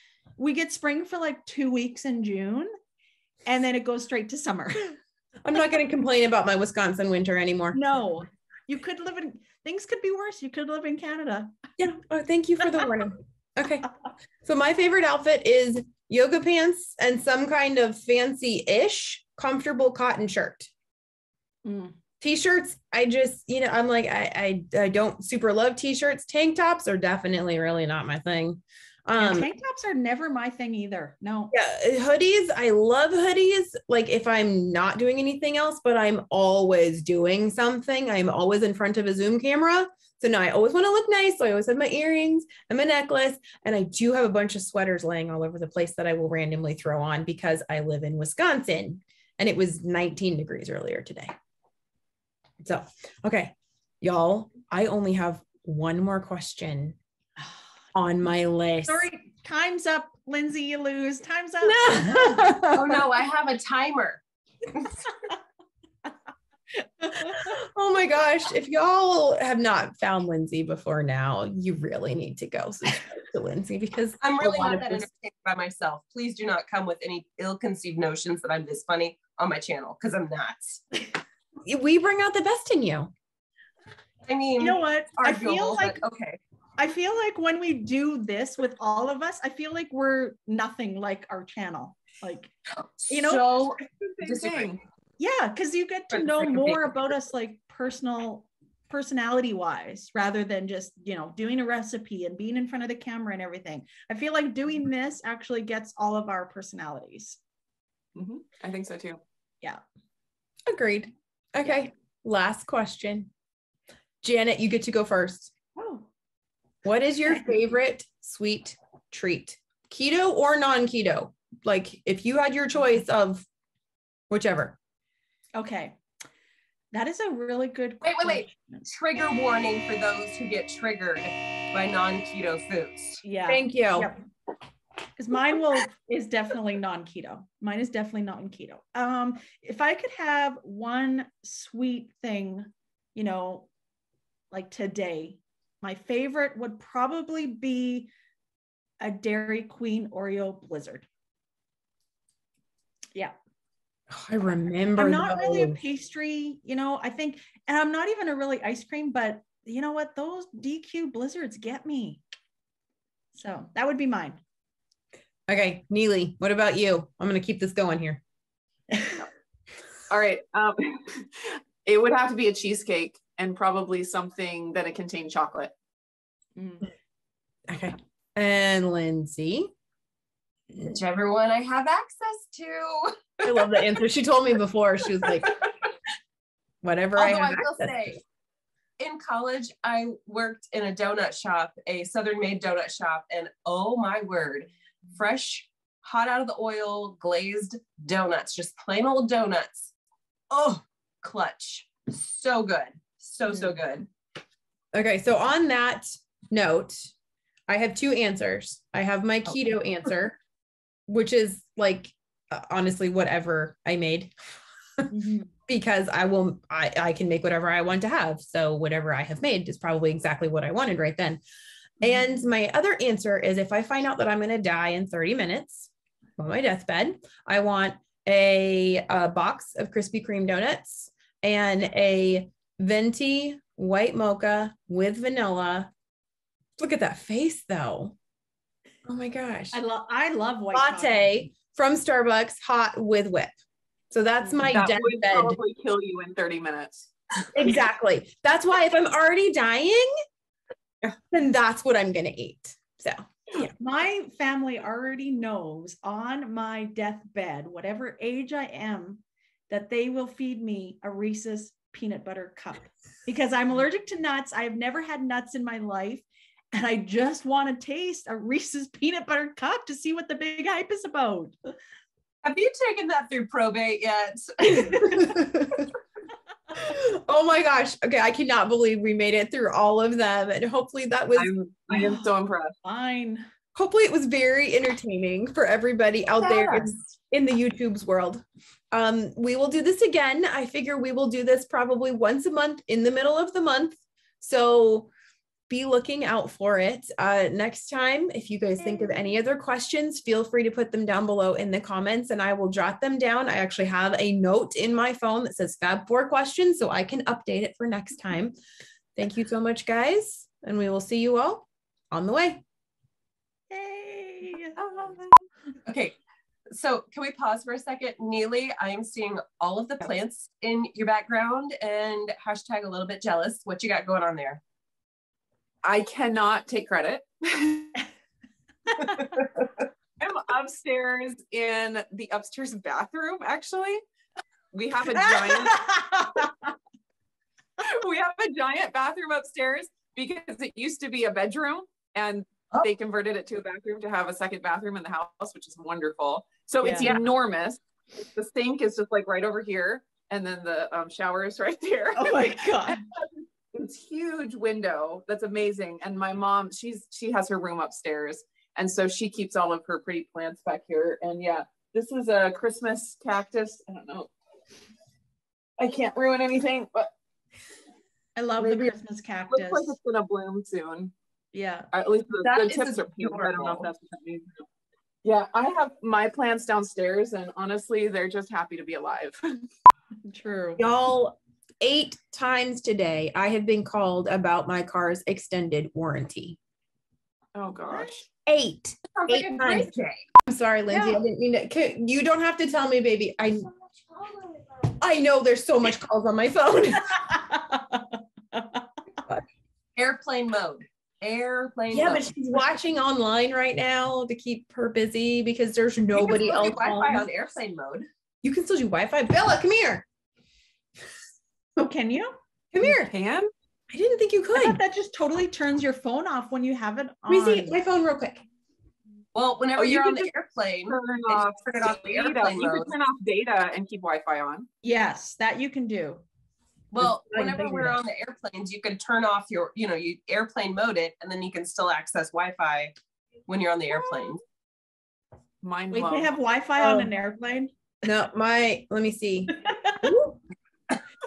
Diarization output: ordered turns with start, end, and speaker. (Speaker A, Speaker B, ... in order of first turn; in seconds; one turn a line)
Speaker A: 0.4-2.7
Speaker A: 3.4-5.0
Speaker B: 5.4-7.8
Speaker A: 7.7-11.6
Speaker B: 11.8-13.9
Speaker B: 14.4-20.7
Speaker A: 21.6-22.0
Speaker B: 22.2-29.5
Speaker A: 29.2-31.5
Speaker B: 31.5-51.3
Speaker B: 52.6-57.0
Speaker B: 57.9-59.1
Speaker A: 58.9-63.0
Speaker B: 61.6-62.8
Speaker C: 62.7-65.1
Speaker A: 66.8-67.5
Speaker B: 67.3-75.1
Speaker C: 74.2-80.8
Speaker B: 81.7-83.1
Speaker C: 84.2-86.4
Speaker A: 84.6-86.0
Speaker A: 86.8-92.5
Speaker C: 92.7-94.8
Speaker A: 93.1-93.6
Speaker D: 93.8-94.8
Speaker A: 95.2-107.4
Speaker C: 96.1-97.1
Speaker D: 108.1-109.2
Speaker B: 110.7-113.3
Speaker B: 114.2-115.5
Speaker A: 115.8-116.1
Speaker B: 116.8-123.4
Speaker B: 124.3-124.8
Speaker A: 125.5-126.0
Speaker A: 126.9-128.8
Speaker C: 128.0-133.2
Speaker A: 133.2-134.2
Speaker B: 133.5-134.1
Speaker A: 135.2-143.7
Speaker A: 144.5-148.1
Speaker A: 149.0-151.0
Speaker B: 154.1-155.8
Speaker A: 155.0-162.2
Speaker A: 163.3-164.4
Speaker B: 165.5-168.2
Speaker A: 168.9-169.2
Speaker D: 170.1-175.7
Speaker A: 176.6-176.8
Speaker B: 177.7-179.7
Speaker C: 180.8-183.9
Speaker B: 183.4-185.5
Speaker C: 185.2-185.7
Speaker B: 186.8-188.2
Speaker C: 187.2-188.2
Speaker C: 189.0-199.9
Speaker C: 200.5-204.1
Speaker B: 204.9-207.1
Speaker B: 207.7-210.4
Speaker B: 211.1-214.3
Speaker A: 215.1-215.5
Speaker B: 215.7-221.4
Speaker B: 222.0-235.9
Speaker B: 236.8-238.1
Speaker B: 239.1-239.8
Speaker A: 239.7-241.5
Speaker B: 240.7-243.5
Speaker B: 244.1-245.6
Speaker D: 244.6-246.9
Speaker B: 247.5-250.1
Speaker B: 251.3-253.7
Speaker A: 253.5-271.5
Speaker C: 272.4-275.4
Speaker B: 274.6-275.9
Speaker B: 276.7-281.6
Speaker D: 281.4-282.7
Speaker A: 281.9-283.5
Speaker B: 283.7-295.1
Speaker D: 286.4-286.9
Speaker B: 295.7-308.5
Speaker B: 309.1-312.6
Speaker A: 313.7-315.1
Speaker C: 315.9-316.1
Speaker C: 316.7-324.6
Speaker D: 325.8-328.0
Speaker A: 328.9-329.3
Speaker D: 330.2-334.0
Speaker D: 334.7-335.8
Speaker A: 335.1-336.7
Speaker D: 337.8-364.3
Speaker A: 346.8-347.1
Speaker C: 346.9-347.3
Speaker A: 352.1-353.0
Speaker D: 365.8-367.1
Speaker A: 368.3-369.9
Speaker D: 368.6-368.9
Speaker D: 369.5-371.1
Speaker A: 371.5-371.9
Speaker D: 371.9-374.6
Speaker C: 372.4-373.9
Speaker D: 375.2-379.6
Speaker A: 380.2-380.8
Speaker B: 380.8-386.6
Speaker D: 387.5-388.2
Speaker B: 388.4-389.9
Speaker C: 389.1-390.2
Speaker B: 390.4-393.7
Speaker A: 390.9-391.2
Speaker B: 395.0-397.3
Speaker A: 397.3-398.8
Speaker C: 399.9-402.2
Speaker B: 401.9-407.2
Speaker C: 406.1-408.1
Speaker B: 408.4-410.0
Speaker A: 411.8-412.4
Speaker B: 412.7-413.1
Speaker D: 412.8-413.5
Speaker B: 413.9-414.8
Speaker A: 414.5-417.8
Speaker B: 417.3-418.4
Speaker C: 419.3-422.9
Speaker D: 419.8-420.3
Speaker D: 420.9-424.7
Speaker A: 424.8-426.2
Speaker C: 426.9-432.9
Speaker B: 427.0-428.0
Speaker C: 433.5-434.4
Speaker D: 435.6-436.4
Speaker A: 435.9-437.7
Speaker B: 436.8-437.1
Speaker B: 438.0-440.4
Speaker A: 439.6-440.0